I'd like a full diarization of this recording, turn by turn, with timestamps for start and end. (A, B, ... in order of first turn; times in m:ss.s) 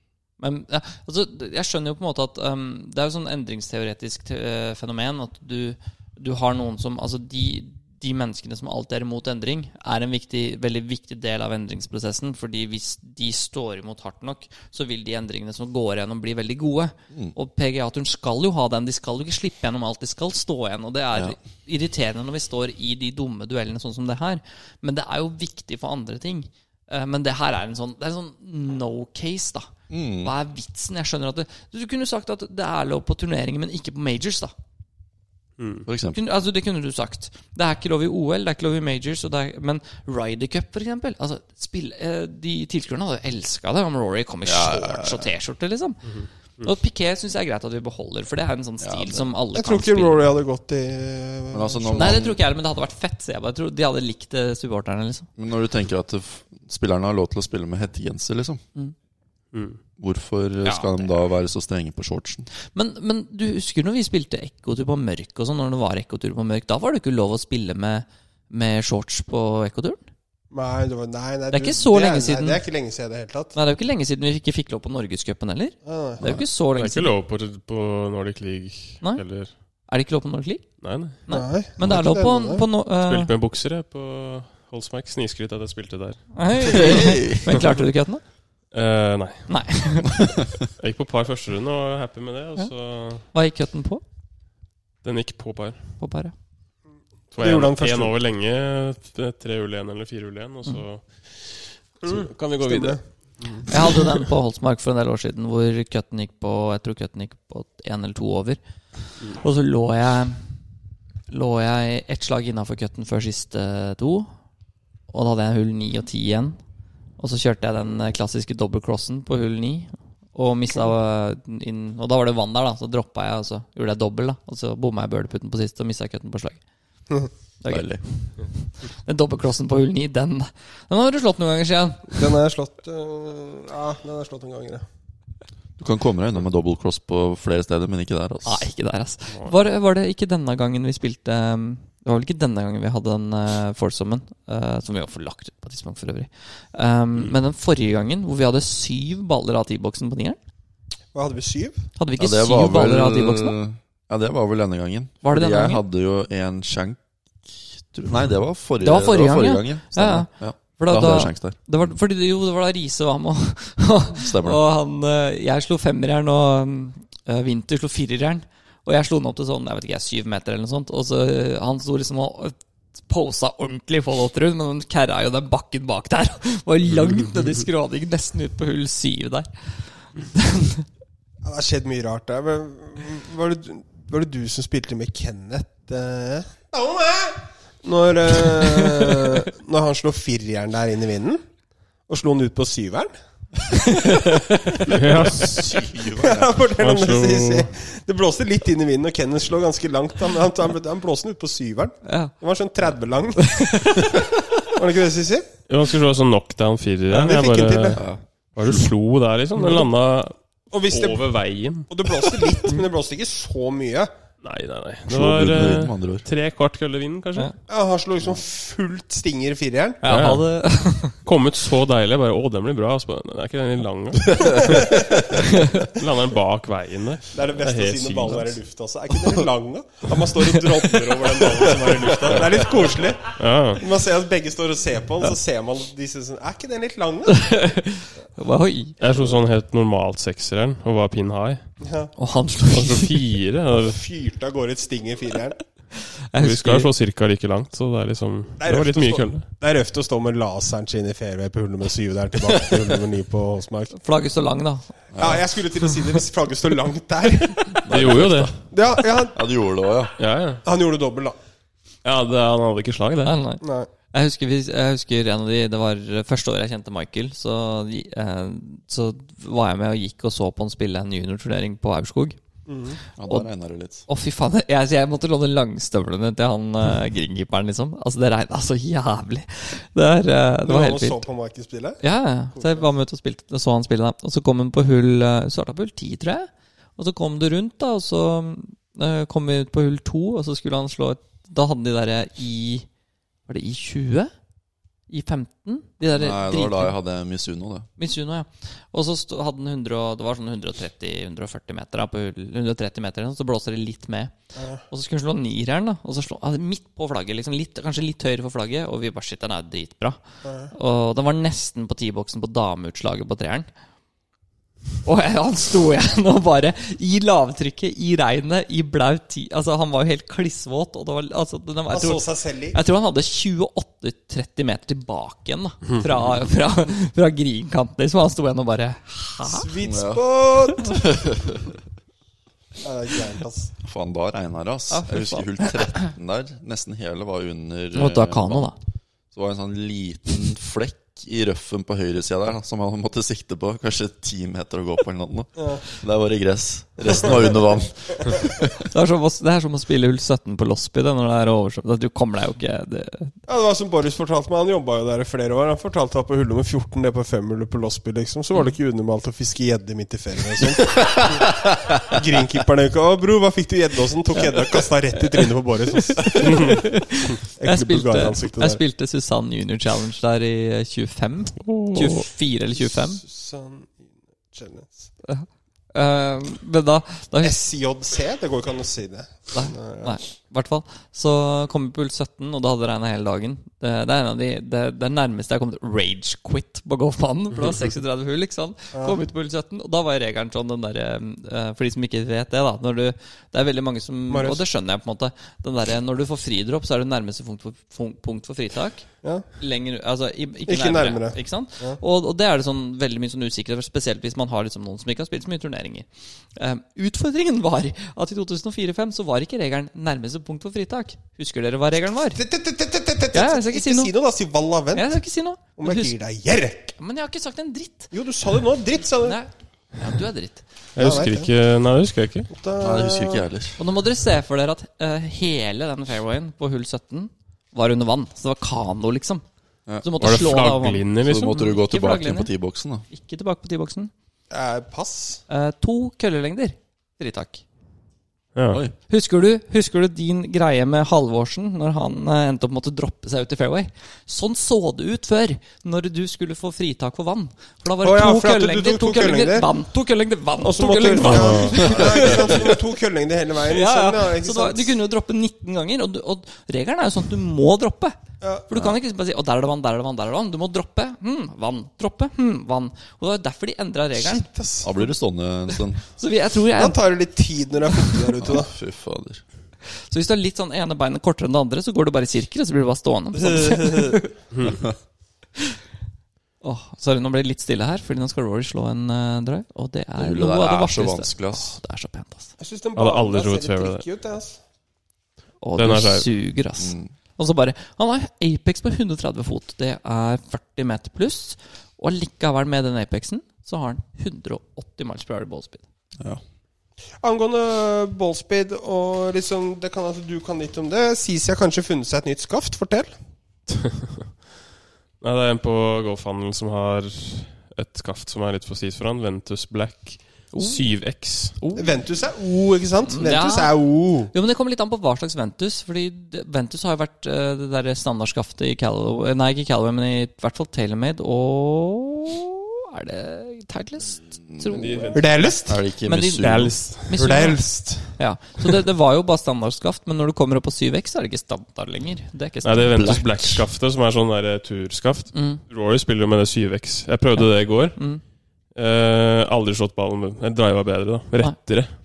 0:00.4-0:34.5 A
0:29.9-0:30.3 B
0:35.6-0:35.8 C
0:35.8-0:36.2 B
0:36.1-0:46.0 A
0:44.4-0:45.3 B
0:46.1-0:46.6 C
0:46.6-0:50.2 A
0:48.8-0:49.3 B
0:49.5-0:52.4 D
0:51.5-0:52.4 B
0:52.0-0:55.3 A
0:55.4-0:58.6 B
0:59.5-0:59.8 C
1:00.0-1:02.5 B
1:00.6-1:01.1 A
1:02.7-1:10.0 A
1:10.5-1:13.6 D
1:11.5-1:12.6 A
1:13.5-1:17.1 A
1:15.8-1:16.2 D
1:16.7-1:19.5 C
1:19.8-1:20.7 A
1:20.8-1:21.2 C
1:21.2-1:23.3 A
1:21.3-1:22.6 D
1:23.0-1:27.0 C
1:26.3-1:28.2 A
1:26.6-1:27.4 B
1:28.7-1:29.5 C
1:29.5-1:30.3 A
1:30.8-1:33.3 C
1:33.3-1:34.0 A
1:35.0-1:35.9 C
1:36.0-1:36.3 A
1:37.3-1:38.1 D
1:37.3-1:43.0 C
1:42.0-1:43.6 D
1:43.7-1:48.6 A
1:49.2-1:50.4 A
1:51.3-1:54.3 A
1:55.1-1:56.6 A
1:57.2-2:06.6 A
2:07.6-2:12.2 A
2:07.7-2:08.0 B
2:12.1-2:14.8 D
2:15.8-2:18.6 B
2:18.4-2:30.4 A
2:31.1-2:31.9 D
2:32.0-2:33.6 A
2:32.2-2:41.6 B
2:35.2-2:35.8 A
2:38.8-2:59.5 A
2:44.1-2:44.6 B
3:00.1-3:00.8 A
3:01.4-3:11.4 D
3:12.1-3:13.1 D
3:13.7-3:15.0 D
3:14.9-3:15.6 C
3:15.2-3:16.6 B
3:16.2-3:24.0 D
3:16.8-3:17.7 C
3:22.0-3:22.3 A
3:23.4-3:24.2 A
3:24.7-3:25.5 D
3:25.7-3:30.4 C
3:27.1-3:28.0 D
3:28.0-3:28.2 B
3:30.7-3:31.2 D
3:30.9-3:31.9 C
3:31.9-3:34.1 D
3:34.4-3:37.5 C
3:35.1-3:36.2 B
3:37.7-3:40.0 D
3:40.0-3:41.2 A
3:40.0-3:40.5 C
3:41.1-3:48.6 C
3:44.6-3:45.2 D
3:47.3-3:57.6 D
3:53.3-3:53.8 C
3:57.4-3:59.0 A
3:59.0-4:01.7 C
4:01.8-4:02.1 D
4:02.2-4:03.1 A
4:02.7-4:04.0 C
4:03.7-4:05.6 D
4:06.3-4:06.9 A
4:06.4-4:09.4 C
4:08.6-4:13.9 D
4:13.9-4:14.9 A
4:15.1-4:15.4 B
4:15.2-4:17.9 D
4:17.8-4:20.2 B
4:17.9-4:18.5 C
4:18.7-4:19.4 D
4:20.2-4:20.6 C
4:20.6-4:21.4 D
4:22.0-4:23.3 C
4:23.2-4:32.4 A
4:23.6-4:23.9 D
4:32.7-4:33.0 D
4:33.2-4:34.0 B
4:34.0-4:41.2 A
4:40.6-4:42.0 D
4:42.0-4:52.8 A
4:42.5-4:42.8 D
4:53.5-4:54.3 A
4:55.1-4:56.9 A
4:56.2-4:57.9 B
4:58.0-5:04.3 A
5:04.6-5:04.8 D
5:04.9-5:10.2 A
5:10.4-5:10.7 D
5:10.7-5:13.7 A
5:15.0-5:29.7 A
5:21.9-5:22.8 D
5:29.4-5:31.0 D
5:29.8-5:31.8 B
5:32.8-5:33.7 D
5:33.8-5:38.7 B
5:34.9-5:36.1 A
5:37.9-5:38.8 A
5:39.3-5:48.9 B
5:45.6-5:45.8 D
5:48.9-5:53.4 A
5:53.5-6:06.9 D
6:05.2-6:13.2 A
6:07.4-6:08.8 D
6:11.6-6:12.2 C
6:12.8-6:15.1 D
6:15.2-6:17.6 A
6:17.4-6:20.2 D
6:19.5-6:52.4 A
6:28.9-6:29.2 D
6:34.3-6:34.6 D
6:40.6-6:42.0 D
6:52.3-6:55.2 D
6:53.3-6:54.1 A
6:54.9-6:56.1 A
6:55.8-6:57.0 D
6:57.0-6:58.1 A
6:58.1-6:59.4 D
6:59.2-7:00.6 A
7:00.9-7:02.5 C
7:01.0-7:01.5 D
7:02.5-7:03.4 D
7:02.8-7:03.8 B
7:03.8-7:09.4 A
7:10.0-7:12.5 A
7:10.2-7:11.5 C
7:11.2-7:13.0 B
7:13.1-7:14.1 A
7:14.5-7:15.4 D
7:15.5-7:17.6 A
7:18.5-7:18.8 C
7:19.1-7:32.7 A
7:28.0-7:29.7 D
7:30.6-7:35.0 D
7:31.2-7:32.6 C
7:33.6-7:38.2 A
7:38.4-7:38.7 D
7:38.7-7:44.5 A
7:44.2-7:45.1 D
7:44.8-7:46.0 B
7:46.1-7:47.0 A
7:46.8-7:48.7 D
7:48.4-7:49.4 B
7:49.9-7:54.3 A
7:53.3-7:54.3 D
7:54.5-7:54.8 C
7:54.6-7:54.9 B
7:56.6-8:02.5 A
8:00.2-8:01.8 B
8:02.6-8:04.6 D
8:03.0-8:04.0 C
8:05.6-8:15.8 A
8:05.8-8:06.3 C
8:06.8-8:07.1 B
8:17.2-8:23.1 D
8:25.2-8:31.8 C
8:31.7-8:34.3 D
8:33.0-8:53.3 A
8:44.5-8:44.9 B
8:44.7-8:45.5 C
8:45.1-8:45.8 D
8:45.6-8:46.9 B
8:46.4-8:47.5 C
8:47.1-8:48.1 D
8:52.6-8:58.0 C
8:52.9-8:53.6 B
8:55.3-8:55.6 A
8:57.9-8:58.2 A
8:58.7-9:01.9 C